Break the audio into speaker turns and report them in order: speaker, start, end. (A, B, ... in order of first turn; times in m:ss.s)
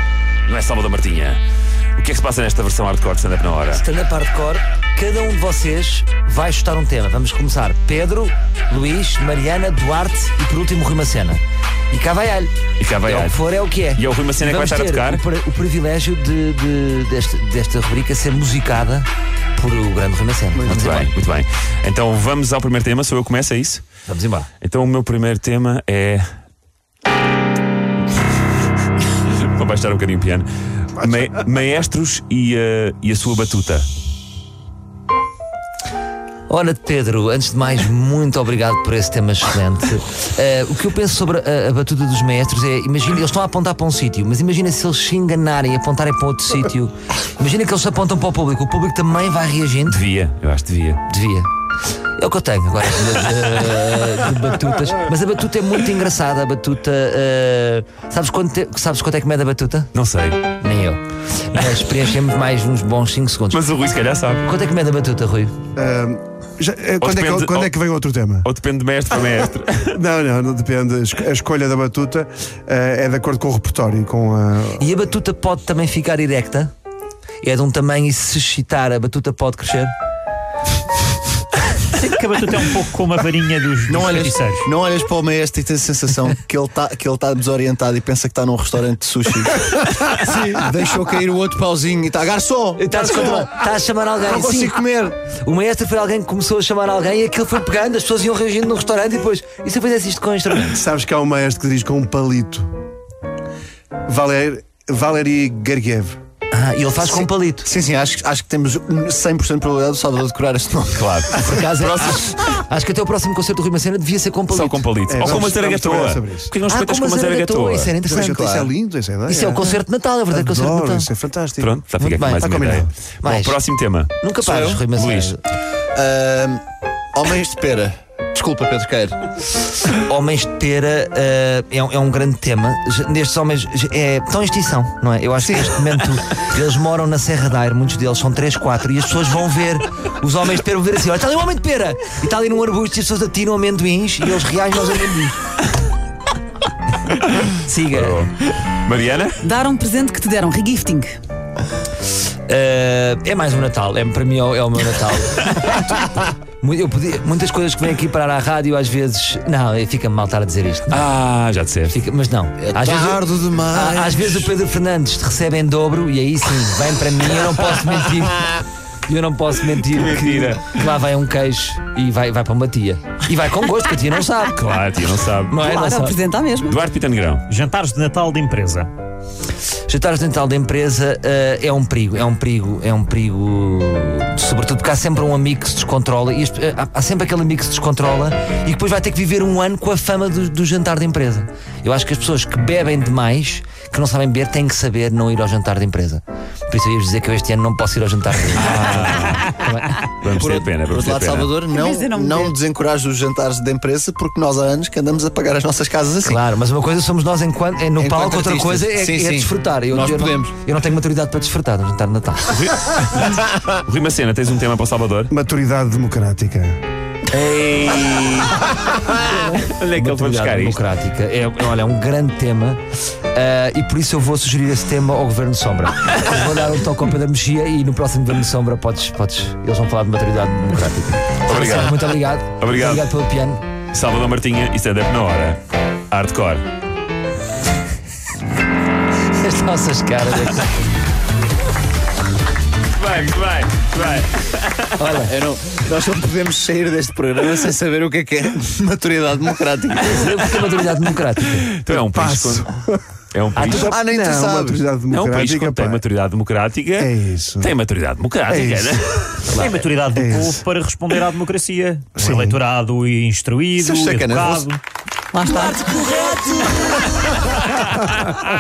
0:00.5-0:01.4 A
0:02.0-0:03.8 A
0:03.7-0:21.1 B
0:12.8-0:13.4 A
0:14.0-0:15.2 A
0:20.6-0:21.0 C
0:20.7-0:23.8 A
0:24.1-0:24.5 B
0:24.6-0:26.2 A
0:29.3-0:33.9 A
0:36.5-0:50.0 B
0:49.9-0:51.0 A
0:51.1-0:51.5 B
0:52.2-0:59.9 B
0:59.9-1:00.4 A
1:00.6-1:03.6 B
1:03.5-1:04.4 A
1:04.4-1:05.6 B
1:05.8-1:08.5 C
1:07.0-1:07.7 A
1:08.4-1:10.0 A
1:09.9-1:14.8 C
1:14.8-1:16.7 B
1:17.4-1:19.9 B
1:22.0-1:24.7 D
1:23.9-1:33.5 E
1:32.8-1:40.8 B
1:34.2-1:35.2 E
1:40.7-1:42.7 C
1:44.1-1:46.2 C
1:46.5-1:47.7 B
1:47.0-1:51.6 E
1:50.9-1:52.2 A
1:51.4-1:54.9 B
1:54.5-1:57.9 A
1:55.1-1:56.5 C
1:56.7-1:58.4 B
1:58.0-1:59.8 C
1:58.3-1:58.7 E
1:59.3-2:01.1 B
2:00.3-2:02.9 C
2:01.6-2:04.2 A
2:02.0-2:03.6 B
2:04.2-2:05.4 B
2:04.4-2:04.8 E
2:04.9-2:05.3 A
2:05.9-2:06.6 E
2:07.1-2:09.3 E
2:09.9-2:25.4 B
2:27.5-2:28.2 B
2:27.9-2:28.3 A
2:28.8-2:29.4 A
2:29.4-2:31.1 F
2:32.5-2:41.1 B
2:40.9-2:42.0 A
2:41.9-2:54.6 B
2:42.6-2:44.5 E
2:50.0-2:50.7 A
2:54.6-2:55.8 A
2:55.5-2:56.2 B
2:55.6-2:56.7 F
2:56.6-2:57.4 A
2:57.5-2:58.9 D
2:59.9-3:20.0 B
3:18.6-3:19.5 A
3:20.2-3:21.6 A
3:20.3-3:26.4 E
3:21.7-3:22.5 F
3:26.2-3:32.7 B
3:28.0-3:30.5 E
3:32.5-3:35.3 A
3:35.3-3:36.8 C
3:37.3-3:40.8 A
3:39.2-3:53.6 B
3:51.5-3:53.1 A
3:53.9-3:55.6 A
3:56.1-3:56.6 A
3:59.3-4:00.7 B
4:02.9-4:05.0 A
4:05.0-4:05.4 B
4:05.2-4:10.6 E
4:10.0-4:11.7 B
4:11.7-4:12.7 A
4:11.9-4:13.0 C
4:13.3-4:14.0 A
4:13.6-4:16.0 C
4:13.7-4:14.9 E
4:15.1-4:19.3 A
4:17.0-4:17.7 C
4:18.5-4:19.0 C
4:19.5-4:24.8 D
4:20.1-4:20.6 C
4:22.2-4:22.6 C
4:23.8-4:24.8 E
4:25.3-4:26.9 F
4:25.4-4:26.1 E
4:26.3-4:28.5 A